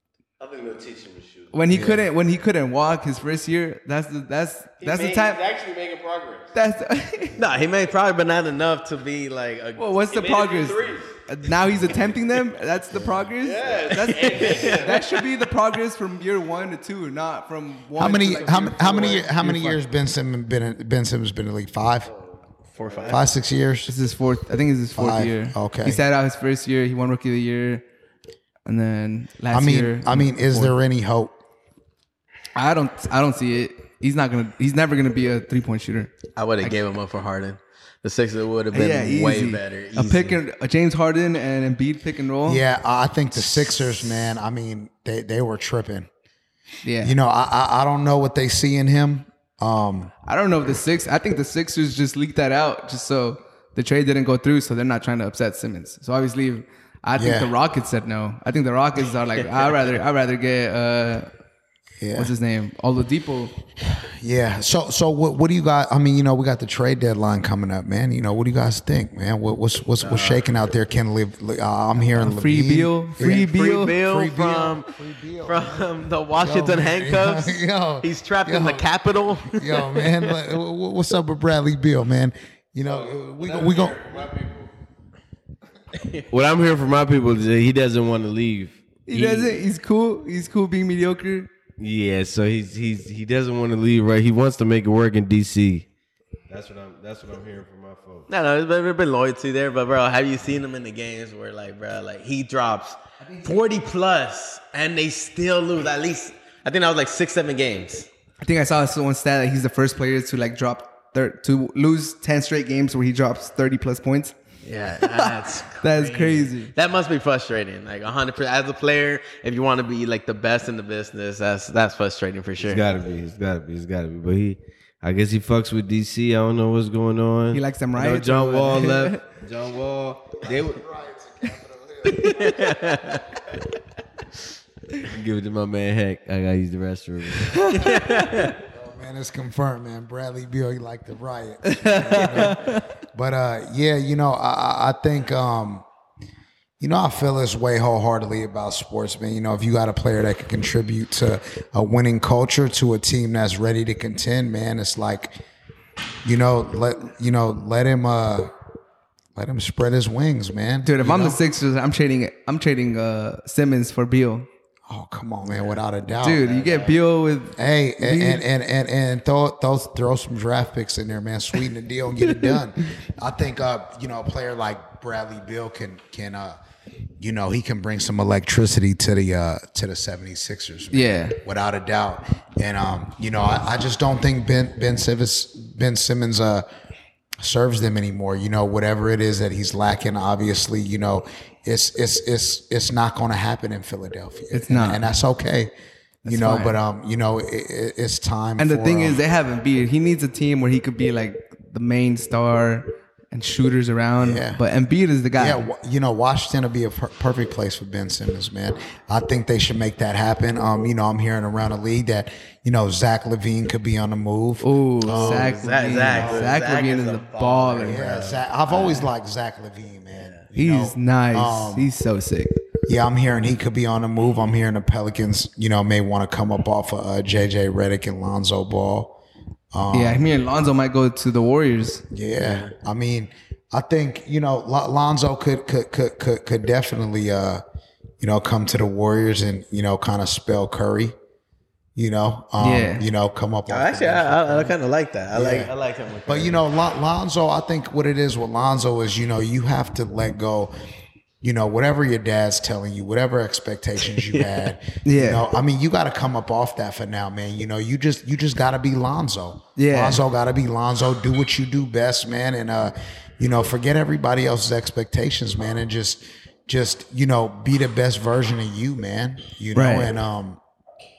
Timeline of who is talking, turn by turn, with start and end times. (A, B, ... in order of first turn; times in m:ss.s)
0:00.4-0:01.7 A
0:01.5-0:05.4 B
0:01.7-0:02.0 C
0:04.8-0:06.5 A
0:06.5-0:07.4 B
0:07.4-0:09.9 D
0:09.8-0:19.8 B
0:10.1-0:12.1 A
0:13.4-0:15.1 A
0:14.1-0:15.0 D
0:18.0-0:22.1 C
0:22.1-0:23.2 A
0:22.7-0:23.3 D
0:23.1-0:23.9 C
0:23.9-0:27.8 B
0:25.0-0:26.0 C
0:28.7-0:30.8 B
0:29.5-0:31.4 C
0:32.6-0:36.8 B
0:36.4-0:40.4 D
0:38.7-0:42.6 B
0:42.4-0:46.1 C
0:46.8-0:47.2 B
0:47.0-0:50.1 C
0:50.3-1:01.3 B
0:57.2-0:57.5 C
1:02.0-1:02.3 C
1:02.2-1:03.6 B
1:03.8-1:24.2 C
1:10.0-1:10.4 D
1:12.1-1:14.0 B
1:13.2-1:14.9 D
1:15.4-1:20.4 D
1:22.8-1:24.7 A
1:25.9-1:26.3 D
1:26.3-1:29.6 A
1:29.1-1:31.5 B
1:31.8-1:35.9 A
1:36.5-1:38.3 A
1:38.3-1:48.1 D
1:43.2-1:43.6 B
1:48.4-1:54.4 B
1:54.6-2:02.8 D
1:55.1-1:56.7 B
2:02.6-2:10.8 A
2:07.5-2:09.2 B
2:10.4-2:13.2 C
2:12.1-2:13.2 D
2:15.0-2:17.9 A
2:17.7-2:18.6 D
2:17.7-2:18.5 B
2:18.6-2:25.8 C
2:21.6-2:22.8 B
2:26.8-2:35.4 C
2:36.2-2:38.5 C
2:39.4-2:41.4 C
2:40.8-2:44.5 B
2:44.9-2:47.0 C
2:46.2-2:48.4 B
2:46.6-2:46.9 D
2:47.6-2:56.6 C
2:52.2-2:52.6 B
2:57.2-3:06.7 C
3:00.9-3:01.4 B
3:07.4-3:15.7 C
3:14.5-3:15.0 B
3:16.2-3:16.8 B
3:16.2-3:19.2 C
3:18.6-3:25.6 B
3:24.2-3:24.6 C
3:25.4-3:36.6 C
3:34.6-3:38.0 B
3:35.0-3:39.1 D
3:37.8-3:41.9 C
3:40.2-3:40.4 D
3:40.6-3:42.6 B
3:42.9-3:49.2 C
3:49.7-3:50.3 C
3:49.9-3:52.1 B
3:52.1-3:57.6 C
3:52.4-3:52.7 D
3:58.2-4:01.2 C
4:02.0-4:04.8 C
4:02.6-4:03.1 B
4:03.7-4:06.6 D
4:05.3-4:05.7 C
4:06.3-4:10.7 C
4:11.4-4:30.6 C
4:15.0-4:15.4 B
4:19.8-4:20.2 B
4:29.8-4:30.1 B